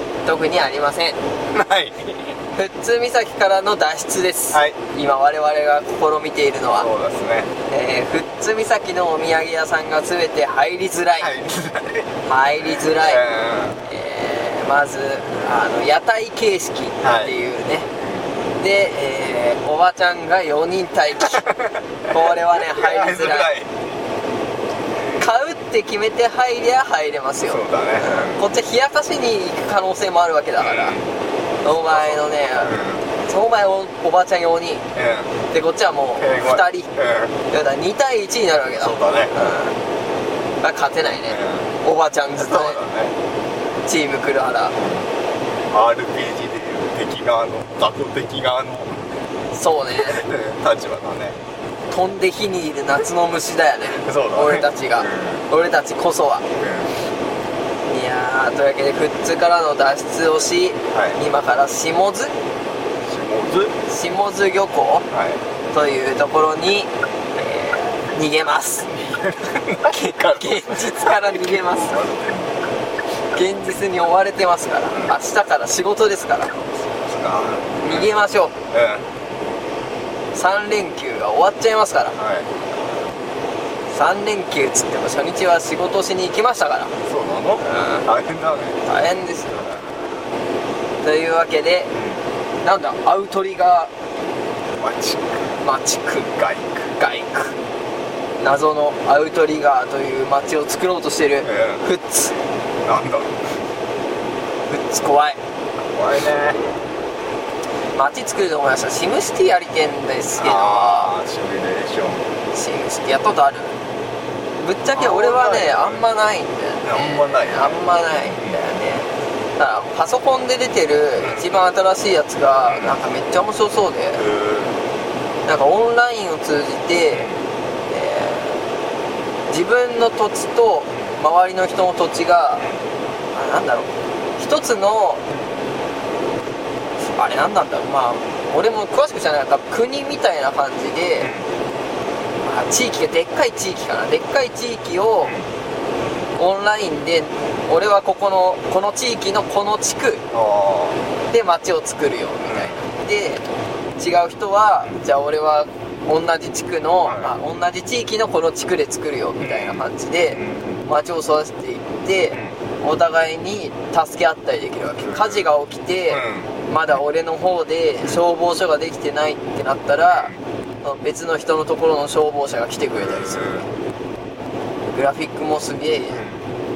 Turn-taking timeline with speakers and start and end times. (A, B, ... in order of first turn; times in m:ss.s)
0:00.2-0:01.2 A
0:01.5-0:02.4 B
0:02.5-0:06.9 A
0:04.5-0:04.8 B
0:06.7-0:07.5 B
0:07.6-0:11.3 A
0:11.2-0:13.9 B
0:12.2-0:13.2 A
0:13.8-0:17.9 A
0:17.0-0:17.3 B
0:18.0-0:18.3 B
0:18.6-0:21.5 A
0:21.2-0:24.0 B
0:22.1-0:23.5 A
0:25.2-0:30.9 A
0:27.5-0:28.4 B
0:30.6-0:31.1 B
0:31.6-0:34.8 A
0:31.7-0:33.0 B
0:34.9-0:35.3 B
0:35.5-0:36.9 A
0:36.2-0:37.3 B
0:37.5-0:39.8 A
0:38.8-0:39.3 B
0:40.6-0:42.8 A
0:41.2-0:41.7 B
0:42.4-0:43.2 B
0:43.8-0:44.7 A
0:44.8-0:45.1 B
0:45.7-0:49.0 B
0:49.5-0:50.2 A
0:50.0-0:51.4 B
0:51.9-0:56.5 A
0:54.0-0:55.5 B
0:56.5-0:57.0 B
0:57.8-1:02.3 A
1:00.9-1:01.2 B
1:03.1-1:03.8 B
1:03.9-1:05.1 A
1:05.1-1:05.4 B
1:05.7-1:08.9 A
1:08.9-1:12.8 B
1:09.8-1:12.0 A
1:13.3-1:16.5 A
1:14.9-1:15.2 B
1:16.9-1:18.1 B
1:17.8-1:18.5 A
1:18.7-1:19.1 B
1:20.3-1:22.2 A
1:22.2-1:22.6 B
1:23.9-1:26.9 A
1:27.0-1:28.8 B
1:27.6-1:28.0 A
1:28.8-1:29.7 A
1:29.5-1:30.0 B
1:31.0-1:31.9 A
1:31.9-1:32.2 B
1:32.6-1:33.9 A
1:34.7-1:35.6 B
1:35.6-1:36.3 A
1:36.3-1:36.9 B
1:37.0-1:37.6 A
1:38.4-1:42.4 A
1:41.4-1:41.8 B
1:42.8-1:43.4 B
1:44.7-1:45.4 A
1:45.9-1:46.6 B
1:47.9-1:51.1 A
1:50.4-1:52.3 B
1:52.5-1:53.8 A
1:54.6-2:04.2 A
1:54.9-1:56.0 B
1:56.8-1:58.8 B
2:01.2-2:01.5 B
2:02.6-2:03.0 B
2:04.2-2:04.8 B
2:05.4-2:07.3 A
2:07.1-2:07.4 B
2:07.9-2:08.6 A
2:09.5-2:12.6 A
2:13.3-2:15.2 A
2:17.2-2:21.3 A
2:21.2-2:21.5 B
2:22.4-2:25.4 A
2:25.2-2:25.5 B
2:26.4-2:30.2 A
2:30.3-2:31.0 B
2:31.3-2:33.4 A
2:32.4-2:32.8 B
2:34.0-2:53.6 A
2:37.0-2:37.4 B
2:39.4-2:40.8 B
2:45.0-2:45.5 B
2:46.1-2:46.5 B
2:50.1-2:50.4 B
2:52.9-2:53.7 B
2:54.9-2:56.2 A
2:56.1-2:56.5 B